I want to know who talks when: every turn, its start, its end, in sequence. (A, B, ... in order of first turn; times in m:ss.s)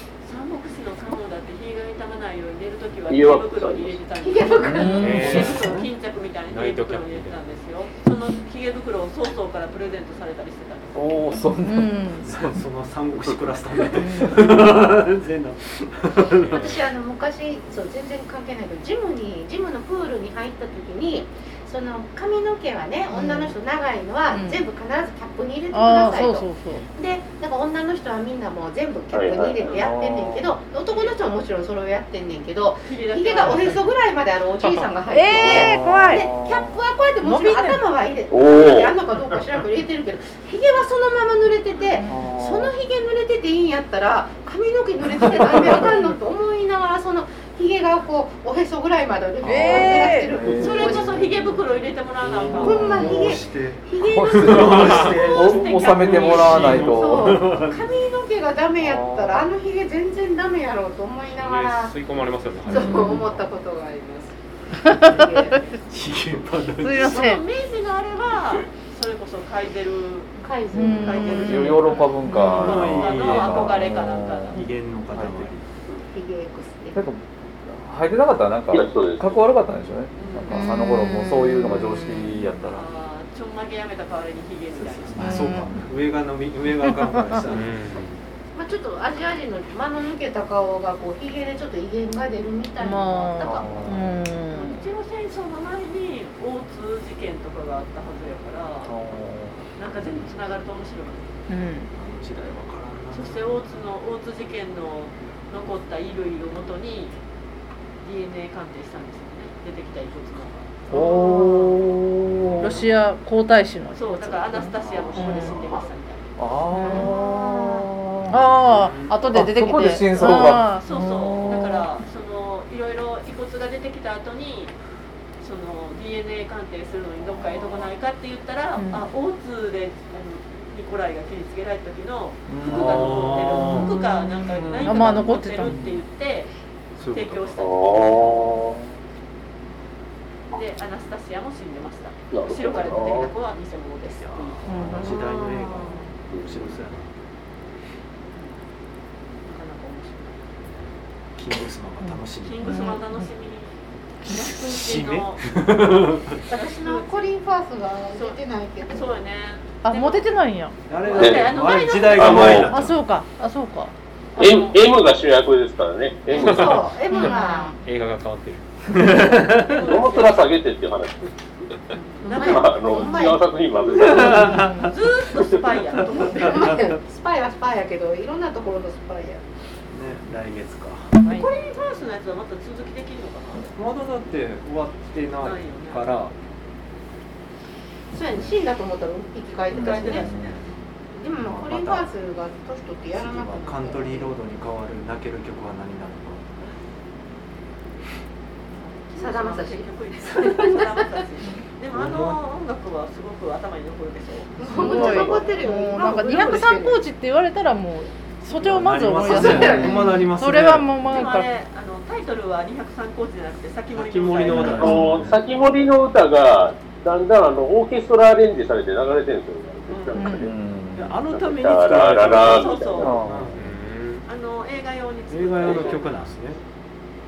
0:00.2-0:11.4 A
0:03.1-0:04.0 B
0:04.2-0:05.3 C
0:04.6-0:05.6 D
0:04.7-0:05.4 E
0:05.0-0:05.9 F
0:05.2-0:05.9 G
0:06.5-0:07.4 F
0:11.0-0:12.5 D
0:11.6-0:12.3 E
0:12.3-0:16.7 G
0:14.0-0:14.6 E
0:16.4-0:16.8 F
0:16.5-0:51.3 C
0:23.1-0:23.5 E
0:24.3-0:24.6 E
0:25.7-0:26.8 E
0:29.1-0:29.7 B
0:29.6-0:29.9 A
0:29.7-0:30.6 D
0:30.9-0:31.2 A
0:32.8-0:33.9 A
0:34.6-0:36.3 E
0:35.4-0:36.8 D
0:37.2-0:37.8 E
0:38.3-0:39.0 B
0:41.9-0:42.3 E
0:42.1-0:42.7 D
0:45.4-0:45.9 D
0:49.4-0:50.4 E
0:49.4-0:51.6 D
0:50.6-0:53.4 A
0:52.2-0:57.8 G
0:52.5-0:53.3 D
0:52.6-0:55.5 C
0:54.1-0:57.6 D
0:54.7-0:56.9 A
0:56.7-1:02.0 C
0:58.8-0:59.5 D
1:01.3-1:03.5 F
1:02.7-1:04.4 C
1:02.7-1:03.3 E
1:04.8-1:05.6 E
1:04.9-1:05.7 C
1:05.9-1:07.3 G
1:06.8-1:07.4 E
1:07.0-1:14.7 A
1:10.4-1:11.5 C
1:10.7-1:12.7 E
1:11.2-1:15.5 D
1:12.5-1:13.9 G
1:14.5-1:15.7 G
1:16.1-1:17.0 C
1:16.9-1:22.8 D
1:18.7-1:19.4 B
1:20.2-1:20.6 A
1:20.5-1:22.5 E
1:22.7-1:25.6 A
1:24.7-1:27.8 G
1:25.2-1:25.7 E
1:26.9-1:27.2 E
1:27.5-1:28.2 F
1:28.6-1:33.9 C
1:32.8-1:34.8 E
1:33.4-1:34.1 D
1:34.5-1:39.0 A
1:38.8-1:39.6 D
1:39.8-1:41.3 A
1:41.5-1:41.9 E
1:41.9-1:43.6 G
1:43.1-1:47.2 A
1:48.0-1:51.5 A
1:50.9-1:52.8 D
1:50.9-1:51.6 E
1:52.3-1:52.8 F
1:52.6-1:55.7 E
1:53.9-1:57.0 A
1:56.4-1:58.2 D
1:56.8-1:57.1 E
1:56.8-1:57.9 C
1:58.2-2:01.7 E
1:58.6-1:59.4 F
1:59.3-2:01.9 D
2:00.5-2:04.8 A
2:05.4-2:16.5 A
2:07.3-2:07.8 G
2:08.8-2:09.0 E
2:12.5-2:13.5 D
2:12.6-2:14.0 G
2:13.7-2:15.9 E
2:17.0-2:17.6 G
2:17.1-2:18.0 A
2:17.6-2:18.8 B
2:20.5-2:25.1 A
2:22.3-2:23.3 B
2:24.1-2:27.1 G
2:24.7-2:25.1 E
2:24.9-2:26.0 C
2:26.3-2:26.7 B
2:28.3-2:28.6 A
2:29.5-2:30.5 A
2:31.4-2:32.8 G
2:32.0-2:33.3 E
2:32.4-2:37.3 A
2:34.3-2:36.4 G
2:36.5-2:39.2 C
2:38.2-2:40.3 A
2:39.8-2:40.8 E
2:40.9-2:43.0 G
2:40.9-2:42.7 A
2:41.2-2:41.5 B
2:42.2-2:42.7 B
2:42.7-2:43.9 E
2:44.4-2:44.9 A
2:44.4-2:46.9 B
2:46.3-2:47.7 C
2:46.3-2:48.6 F
2:47.1-2:47.8 E
2:48.9-2:49.8 G
2:49.5-2:50.5 A
2:49.7-2:51.3 B
2:52.0-2:53.4 A
2:52.2-2:53.4 C
2:52.4-2:54.6 B
2:54.0-2:54.9 G
2:54.1-2:56.7 A
2:54.6-2:54.9 E
2:55.8-2:57.0 G
2:56.3-2:59.4 C
2:59.9-3:01.2 G
3:01.2-3:01.5 E
3:01.2-3:03.7 A
3:03.7-3:06.3 G
3:05.4-3:06.1 A
3:08.1-3:10.3 C
3:09.7-3:10.6 A
3:09.7-3:10.6 D
3:11.2-3:14.4 C
3:11.4-3:12.1 G
3:13.2-3:16.4 G
3:18.7-3:25.5 A
3:19.2-3:21.2 C
3:21.9-3:22.4 G
3:24.6-3:27.0 C
3:24.6-3:31.5 E
3:28.6-3:30.9 G
3:29.2-3:30.2 C
3:31.1-3:35.0 A
3:33.9-3:35.1 F
3:34.4-3:35.4 G
3:34.8-3:40.6 B
3:39.9-3:40.4 A
3:40.2-3:40.5 E
3:40.4-3:41.2 D
3:41.0-3:43.6 G
3:41.3-3:43.2 B
3:42.2-3:43.2 A
3:43.0-3:43.6 D
3:43.6-3:44.2 F
3:44.3-3:46.4 A
3:45.3-3:46.6 G